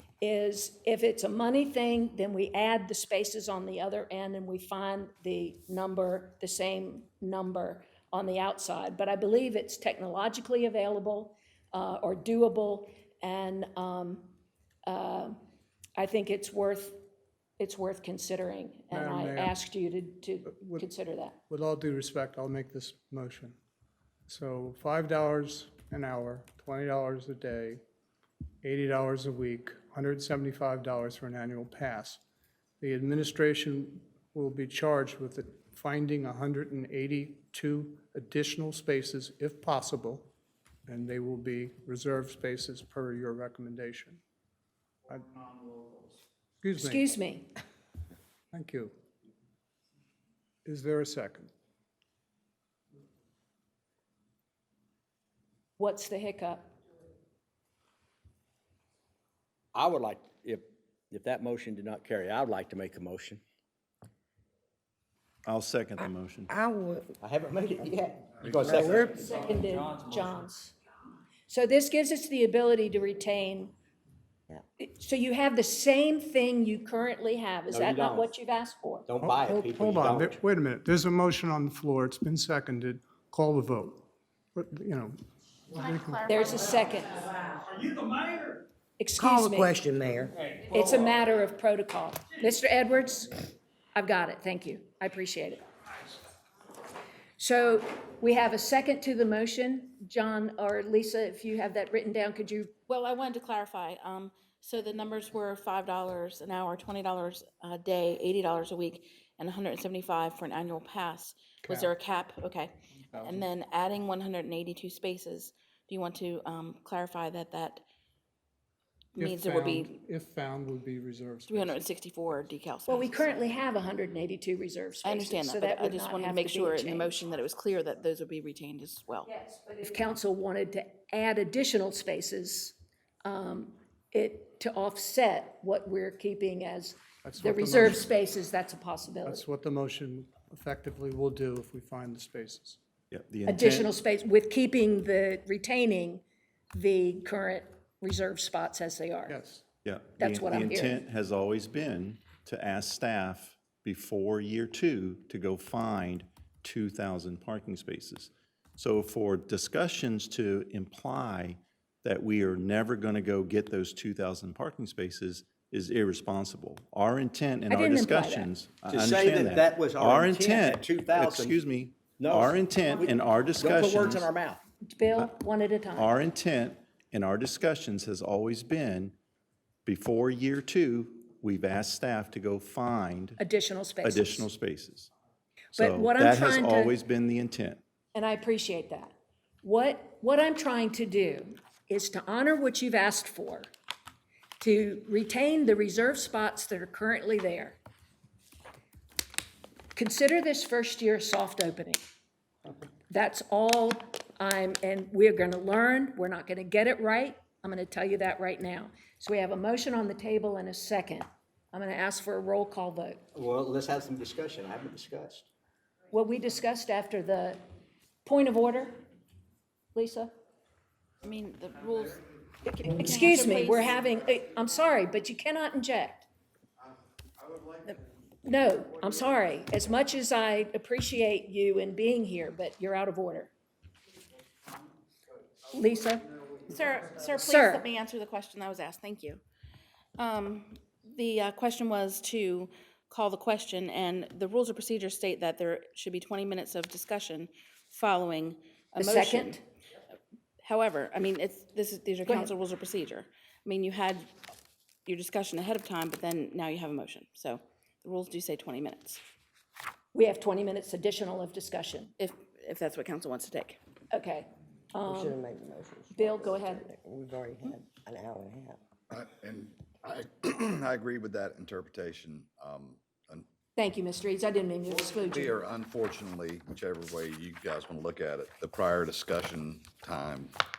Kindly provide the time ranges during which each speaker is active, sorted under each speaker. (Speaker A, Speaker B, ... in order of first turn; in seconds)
Speaker A: 0.2-14.3, 14.9-15.4, 16.0-17.0, 17.6-21.4, 46.8-47.5, 55.8-56.8, 69.0-70.8, 71.5-73.7, 74.8-79.1, 86.3-87.3, 89.0-89.8, 90.6-95.7, 97.4-102.7, 122.9-127.1, 129.3-139.4, 143.5-149.4, 150.2-151.0, 167.7-168.5, 174.9-176.2, 183.4-184.5, 185.8-186.9, 188.1-193.7, 194.6-197.8, 199.9-202.0, 203.1-213.2, 216.1-217.6, 218.2-219.0, 219.9-220.3, 222.7-226.3, 228.4-233.5, 235.7-236.3, 237.3-237.8, 249.0-249.6, 260.1-262.1, 264.1-265.4, 266.1-266.9, 273.8-275.6
Speaker B: 18.9-19.6, 20.5-20.9, 21.5-23.6, 24.3-27.8, 28.6-32.2, 32.8-40.3, 40.9-44.2, 45.1-45.4, 46.6-47.1, 48.5-48.9, 50.6-51.5, 79.2-85.2, 85.8-86.3, 111.6-111.9, 113.1-113.5, 119.2-121.8, 137.2-138.1, 139.2-142.8, 149.3-149.6
Speaker C: 59.8-63.4, 67.2-69.1, 77.7-78.3, 79.1-80.4, 168.9-171.6, 172.2-174.6, 213.3-215.4
Speaker D: 65.5-66.5, 143.1-143.9, 149.8-174.3, 176.0-179.2, 179.9-183.4, 184.0-185.1, 185.8-187.8
Speaker E: 66.5-67.2, 68.5-69.2, 89.2-90.3, 265.1-268.8
Speaker F: 85.7-87.0, 102.9-117.8, 119.2-119.9, 121.5-123.3, 125.0-129.3, 221.2-222.3, 222.8-224.0, 236.7-239.4, 240.2-249.6, 250.6-254.3, 255.1-259.2, 262.2-263.8
Speaker G: 269.1-273.5, 274.9-280.5